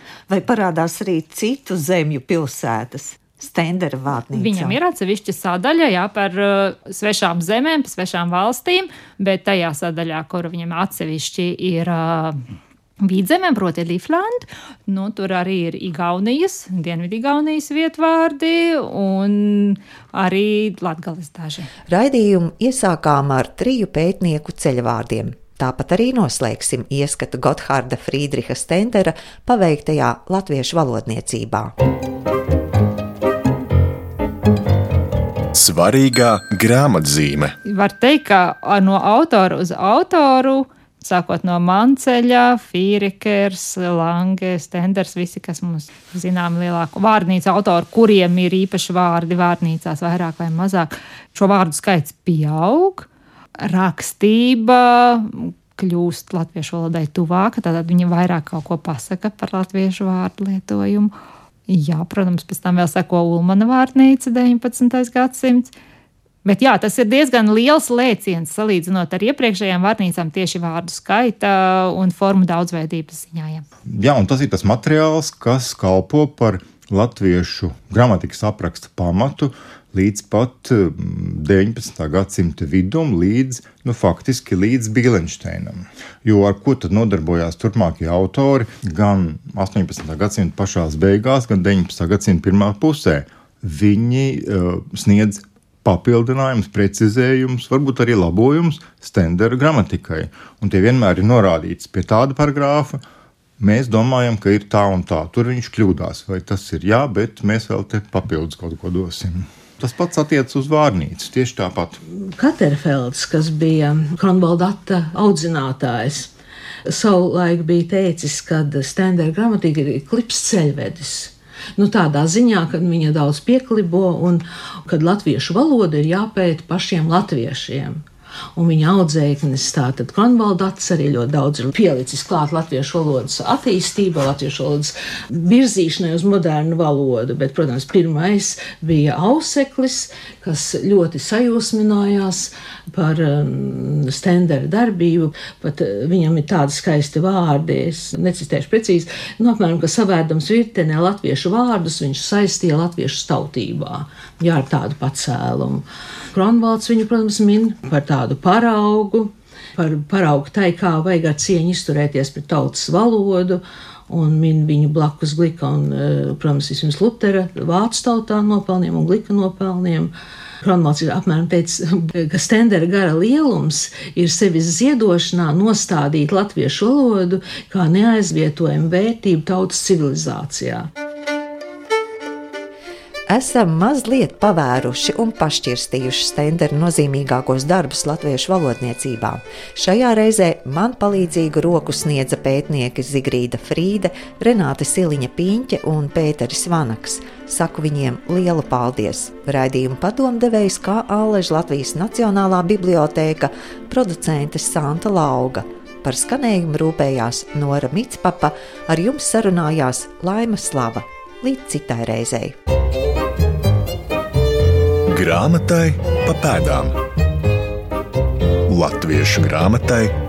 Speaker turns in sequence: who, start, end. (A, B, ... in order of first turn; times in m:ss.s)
0:00.3-0:04.8 A
0:04.3-0:12.4 B
0:13.0-0:21.7 B
0:21.9-0:31.7 A
0:35.5-0:37.5 C
0:37.6-0:53.1 B
0:53.6-1:01.1 B
1:01.7-1:05.7 B
1:06.4-1:13.6 B
1:13.9-1:43.0 D
1:43.6-1:52.0 D
1:52.2-1:56.3 E
1:56.8-2:08.0 E
2:08.6-2:50.1 E
2:50.6-3:00.9 E
3:03.3-3:32.6 A
3:35.1-3:37.0 C
3:38.7-3:40.1 C